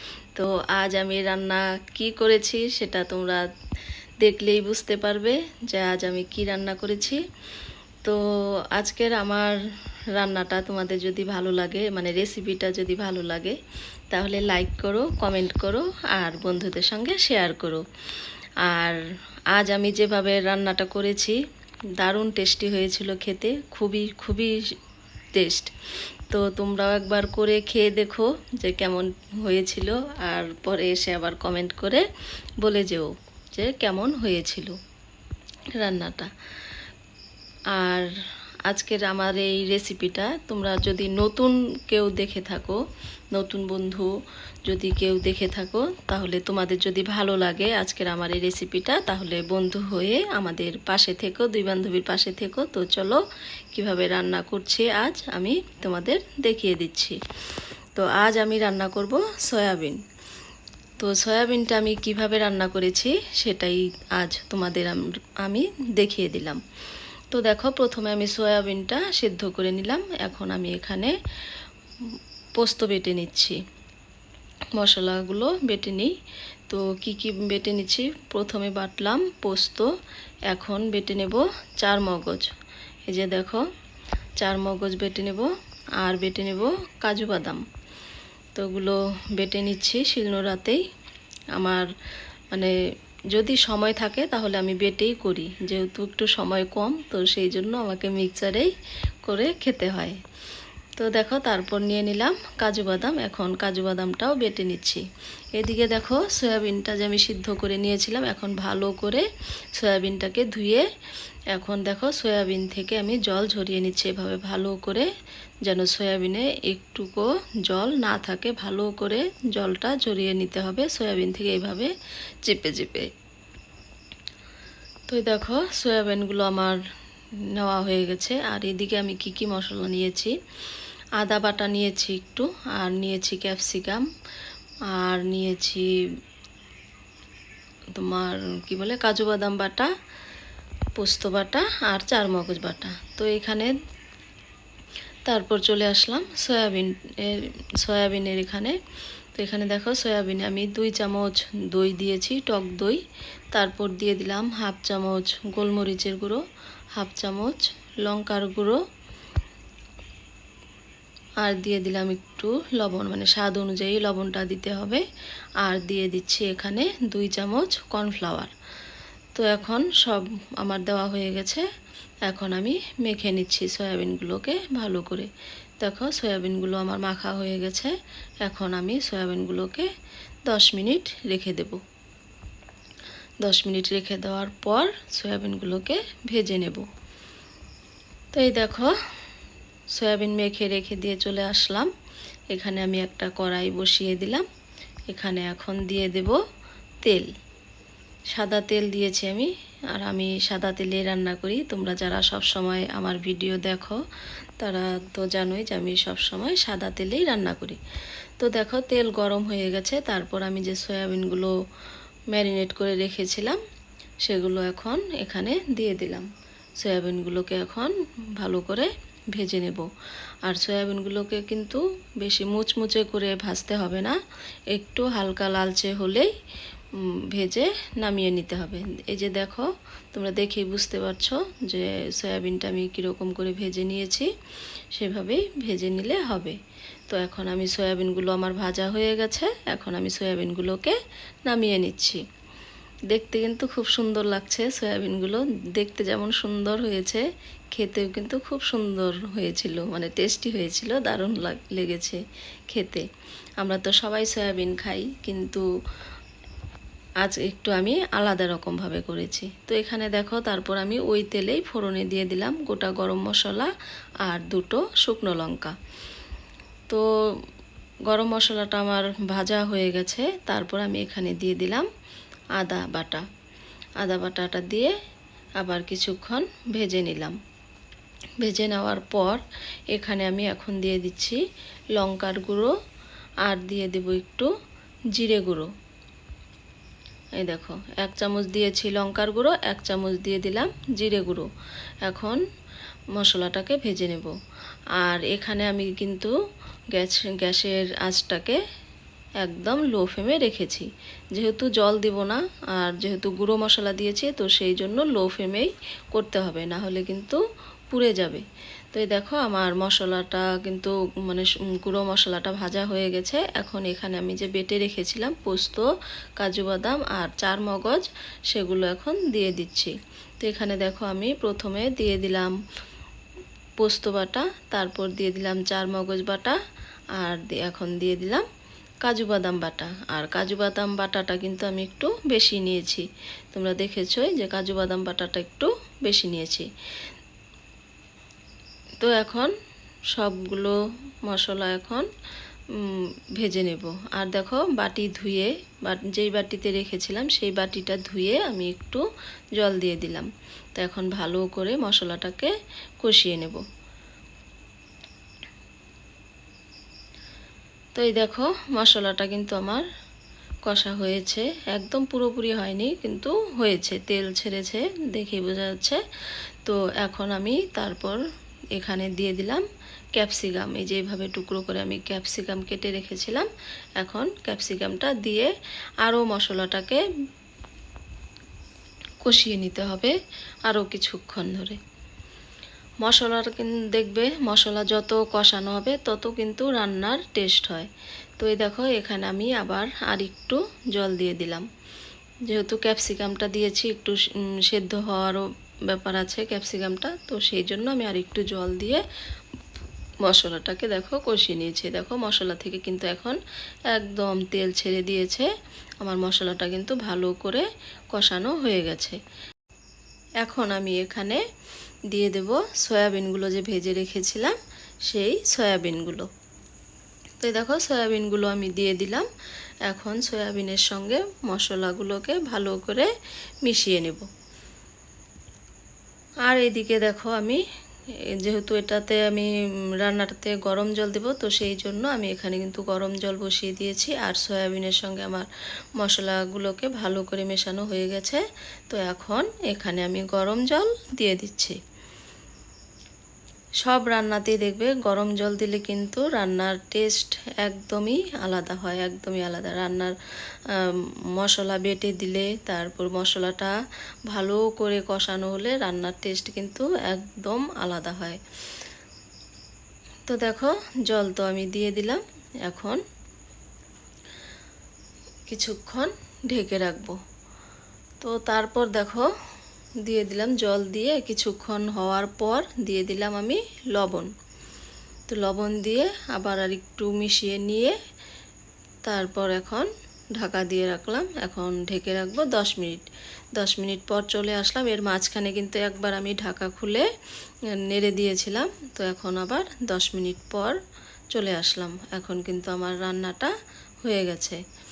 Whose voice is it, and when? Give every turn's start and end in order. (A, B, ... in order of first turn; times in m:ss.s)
0:00.4-0:03.4 A
0:04.2-0:07.2 A
0:08.0-0:09.6 A
0:10.2-0:13.6 A
0:14.1-0:17.8 A
0:18.6-0:19.0 A
0:19.5-0:21.4 A
0:22.0-0:24.6 A
0:25.3-0:25.7 A
0:26.3-0:32.1 A
0:32.6-0:34.8 A
0:35.8-0:36.3 A
0:37.8-0:38.1 A
0:38.7-0:42.8 A
0:43.3-0:44.1 A
0:44.7-0:53.2 A
0:53.7-0:57.2 A
0:58.0-1:00.0 A
1:01.0-1:06.6 A
1:07.3-1:11.2 A
1:12.1-1:13.6 A
1:14.8-1:16.1 A
1:16.7-1:19.9 A
1:20.5-1:22.5 A
1:23.1-1:23.6 A
1:24.4-1:27.6 A
1:28.6-1:30.8 A
1:31.6-1:31.9 A
1:33.3-1:38.7 A
1:39.3-1:40.2 A
1:41.0-1:45.0 A
1:45.6-1:50.9 A
1:51.5-1:55.1 A
1:55.6-2:01.9 A
2:02.4-2:03.1 A
2:05.1-2:06.8 A
2:07.5-2:10.4 A
2:11.2-2:14.1 A
2:14.9-2:15.9 A
2:18.0-2:19.9 A
2:21.0-2:23.7 A
2:25.3-2:28.8 A
2:29.4-2:33.0 A
2:33.5-2:36.4 A
2:37.0-2:38.8 A
2:41.4-2:45.0 A
2:45.6-2:48.5 A
2:49.4-2:51.7 A
2:52.3-2:55.3 A
2:55.8-2:59.9 A
3:00.5-3:01.8 A
3:03.4-3:06.9 A
3:08.3-3:08.9 A
3:09.9-3:11.9 A
3:12.5-3:14.5 A
3:15.1-3:16.4 A
3:17.0-3:17.3 A
3:18.3-3:24.0 A
3:24.6-3:27.8 A
3:28.4-3:31.5 A
3:32.3-3:33.6 A
3:34.2-3:39.9 A
3:40.4-3:44.2 A
3:44.7-3:46.3 A
3:47.0-3:54.3 A
3:55.0-3:56.6 A
3:57.1-4:02.2 A
4:03.1-4:13.1 A
4:13.6-4:15.6 A
4:17.2-4:23.7 A
4:24.2-4:25.8 A
4:28.1-4:31.9 A
4:32.6-4:33.2 A
4:34.0-4:34.9 A
4:35.6-4:37.4 A
4:38.4-4:39.4 A
4:39.9-4:41.4 A
4:42.0-4:42.7 A
4:43.4-4:44.5 A
4:45.1-4:45.7 A
4:47.4-4:51.5 A
4:52.0-4:52.4 A
4:53.2-4:54.3 A
4:55.0-4:56.3 A
4:56.9-4:58.6 A
4:59.4-5:22.6 A
5:23.8-5:26.6 A
5:27.2-5:28.5 A
5:29.0-5:36.7 A
5:39.0-5:39.5 A
5:40.1-5:42.1 A
5:42.7-5:49.0 A
5:49.6-5:53.6 A
5:58.0-5:59.9 A
6:00.7-6:06.0 A
6:06.6-6:08.2 A
6:08.8-6:09.6 A
6:10.2-6:15.5 A
6:16.0-6:17.0 A
6:19.2-6:20.2 A
6:20.7-6:21.8 A
6:23.0-6:31.7 A
6:32.5-6:39.0 A
6:40.2-6:43.4 A
6:43.9-6:45.5 A
6:46.0-6:49.2 A
6:50.4-6:51.4 A
6:52.1-6:54.6 A
6:55.1-6:56.3 A
6:57.4-6:59.3 A
6:59.9-7:03.1 A
7:03.6-7:04.3 A
7:06.5-7:07.6 A
7:08.3-7:21.8 A
7:23.8-7:30.2 A
7:30.7-7:33.8 A
7:34.3-7:38.4 A
7:40.3-7:43.0 A
7:45.5-7:47.2 A
7:48.2-7:49.3 A
7:50.0-7:54.3 A
7:55.3-7:58.0 A
7:59.1-8:03.0 A
8:03.6-8:07.1 A
8:07.7-8:10.8 A
8:11.3-8:13.5 A
8:14.0-8:14.6 A